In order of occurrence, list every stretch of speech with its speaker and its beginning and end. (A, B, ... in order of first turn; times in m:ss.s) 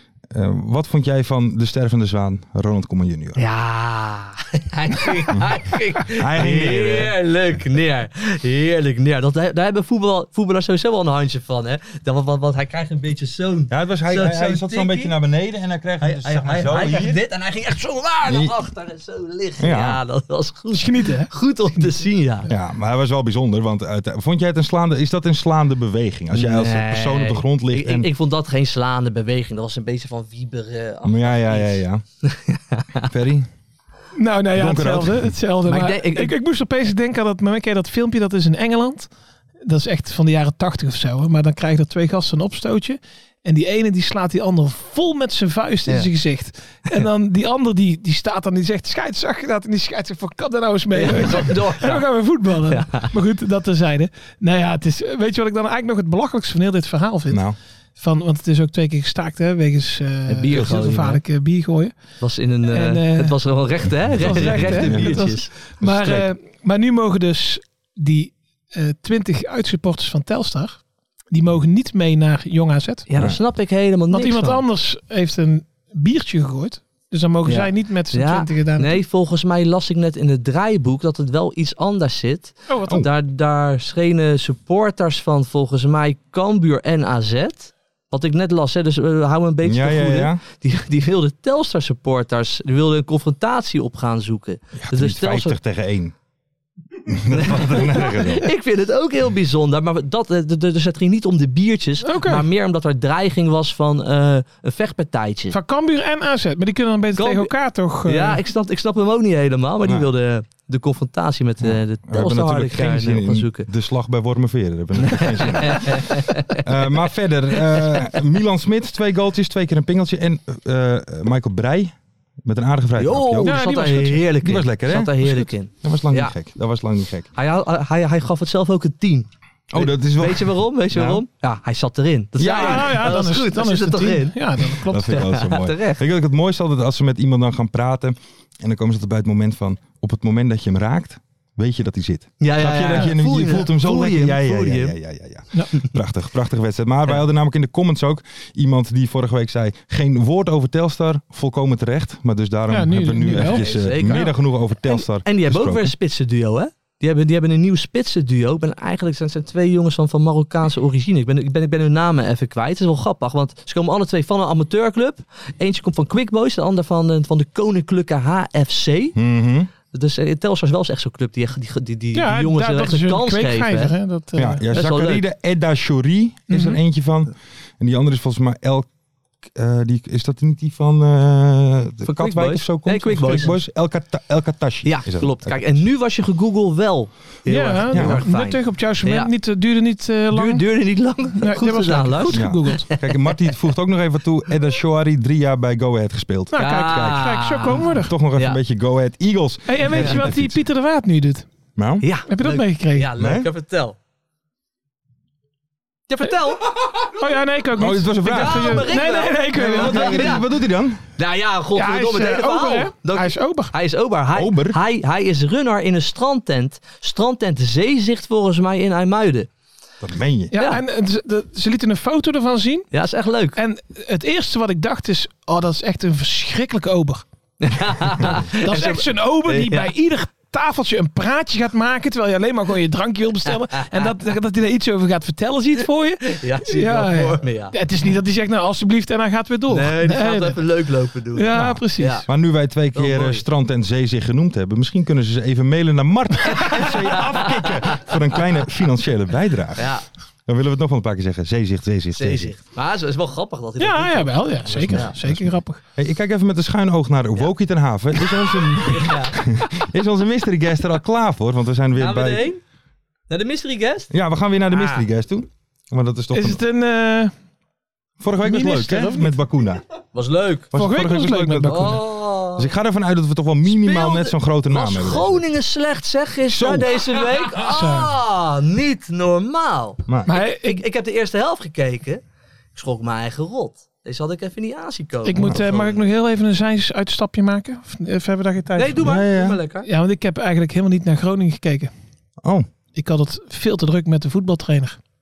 0:00.3-0:03.4 A
0:03.4-0:15.1 B
0:06.1-0:07.1 A
0:13.7-0:17.2 A
0:16.0-0:22.5 B
0:18.3-0:18.5 A
0:19.6-0:20.0 A
0:20.7-0:21.3 C
0:22.5-0:28.1 A
0:26.3-0:33.1 B
0:31.0-0:32.0 A
0:33.1-0:33.5 A
0:34.1-0:39.1 C
0:34.5-0:35.3 A
0:35.7-0:36.4 B
0:39.6-1:02.0 C
0:50.9-0:52.1 B
0:52.6-0:53.1 B
0:57.3-0:57.6 A
1:00.3-1:01.2 B
1:02.2-1:05.5 B
1:02.7-1:03.4 C
1:04.1-1:05.2 A
1:04.2-1:13.1 C
1:05.8-1:06.3 A
1:13.1-1:14.6 B
1:14.1-1:19.0 C
1:17.4-1:35.6 B
1:22.7-1:23.0 C
1:29.6-1:30.4 A
1:34.8-1:36.1 A
1:37.1-1:38.5 A
1:37.3-1:45.6 B
1:42.0-1:42.5 C
1:45.5-1:48.4 C
1:47.1-1:47.5 B
1:48.0-1:53.7 B
1:49.8-1:50.1 A
1:51.6-2:03.6 A
1:55.0-1:56.6 B
2:03.0-2:06.4 B
2:03.4-2:04.3 C
2:04.4-2:07.3 A
2:07.4-2:14.4 B
2:09.7-2:11.2 A
2:12.4-2:13.0 A
2:12.4-2:15.3 C
2:14.9-2:35.9 A
2:15.1-2:16.0 B
2:22.4-2:24.9 B
2:32.7-2:34.2 C
2:33.3-2:34.3 B
2:34.9-2:49.2 B
2:49.1-2:49.7 A
2:49.9-2:53.9 B
2:52.1-2:54.7 C
2:54.4-2:58.9 A
2:54.7-2:55.2 B
2:56.5-2:56.8 C
2:59.5-3:05.6 A
3:02.0-3:03.6 B
3:04.8-3:09.3 B
3:07.5-3:10.8 C
3:07.9-3:08.2 A
3:10.3-3:13.1 B
3:11.4-3:12.9 C
3:12.3-3:17.2 A
3:16.5-3:18.1 C
3:16.6-3:17.9 B
3:18.0-3:20.6 A
3:19.6-3:21.5 C
3:20.0-3:20.3 B
3:21.8-3:22.0 A
3:22.0-3:24.0 B
3:22.3-3:23.1 C
3:23.2-3:23.5 A
3:26.1-3:27.2 B
3:27.1-3:30.4 C
3:27.8-3:31.0 A
3:28.2-3:30.4 B
3:31.2-3:39.5 B
3:31.8-3:33.7 C
3:34.4-3:34.8 A
3:40.0-3:40.5 A
3:40.5-3:42.9 C
3:40.5-3:40.8 B
3:42.9-3:43.6 B
3:43.6-3:47.2 C
3:47.6-3:49.9 B
3:48.3-4:00.7 C
3:53.8-3:54.1 B
3:56.3-3:57.8 B
3:59.7-4:02.3 B
4:01.3-4:02.2 C
4:01.6-4:09.9 A
4:02.9-4:03.4 B
4:06.5-4:08.1 B
4:09.8-4:10.0 B
4:10.5-4:12.5 A
4:12.1-4:15.1 B
4:13.8-4:15.8 C
4:14.6-4:22.5 A
4:18.8-4:19.4 B
4:22.0-4:22.6 B
4:23.3-4:24.1 B
4:24.1-4:26.6 A
4:24.7-4:25.0 B
4:26.3-4:27.3 C
4:28.2-4:29.8 A
4:28.4-4:29.3 C
4:30.1-4:30.7 B
4:30.7-4:32.0 A
4:30.8-4:32.0 C
4:31.7-4:32.7 B
4:32.5-4:35.4 A
4:33.7-4:42.2 B
4:36.5-4:37.0 A
4:37.6-4:38.1 C
4:40.3-4:40.8 C
4:42.8-4:46.0 B
4:45.2-4:49.1 C
4:45.4-4:45.6 A
4:48.8-4:49.9 B
4:49.0-4:49.6 A
4:49.8-4:51.9 C
4:52.4-4:52.7 A
4:52.9-4:55.0 C